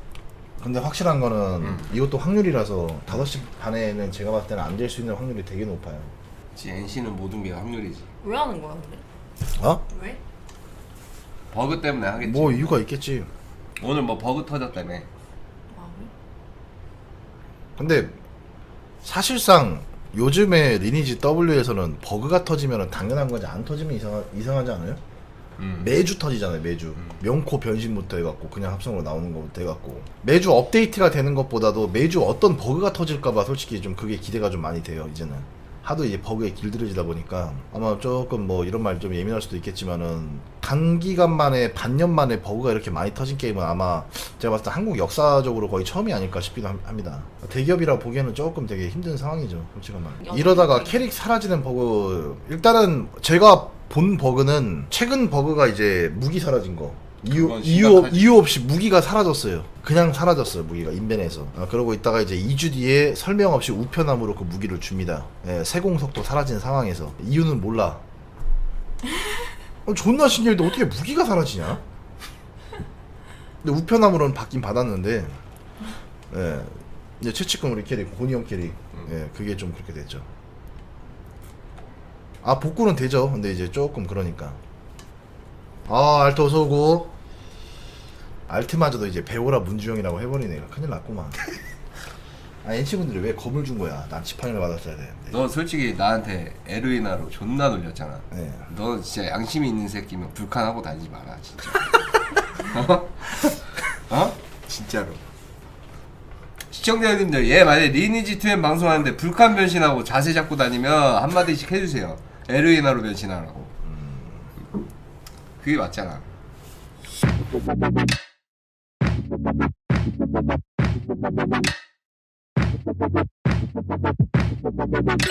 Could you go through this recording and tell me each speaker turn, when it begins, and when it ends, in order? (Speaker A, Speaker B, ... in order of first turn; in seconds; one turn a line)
Speaker A: 0.6-6.1
Speaker B: 1.6-1.9
Speaker B: 6.5-8.1
Speaker C: 8.2-9.0
Speaker A: 9.6-9.8
Speaker C: 9.9-10.2
Speaker B: 11.5-12.8
Speaker A: 12.2-13.3
Speaker B: 13.8-15.1
Speaker C: 15.7-16.1
Speaker A: 17.8-18.2
Speaker A: 19.0-25.0
Speaker B: 25.6-25.9
Speaker A: 25.8-68.0
Speaker C: 50.2-51.1
Speaker B: 57.3-58.4
Speaker A: 69.8-71.8
Speaker A: 73.6-75.4
Speaker A: 76.3-80.3
Speaker A: 82.4-84.6
Speaker A: 85.8-87.1
Speaker A: 88.5-91.4
Speaker A: 92.6-95.4
Speaker B: 95.3-101.9
Speaker A: 98.3-98.7
Speaker B: 102.5-103.5
Speaker B: 104.1-105.2
Speaker B: 106.7-113.7
Speaker A: 113.8-114.5
Speaker B: 115.6-116.2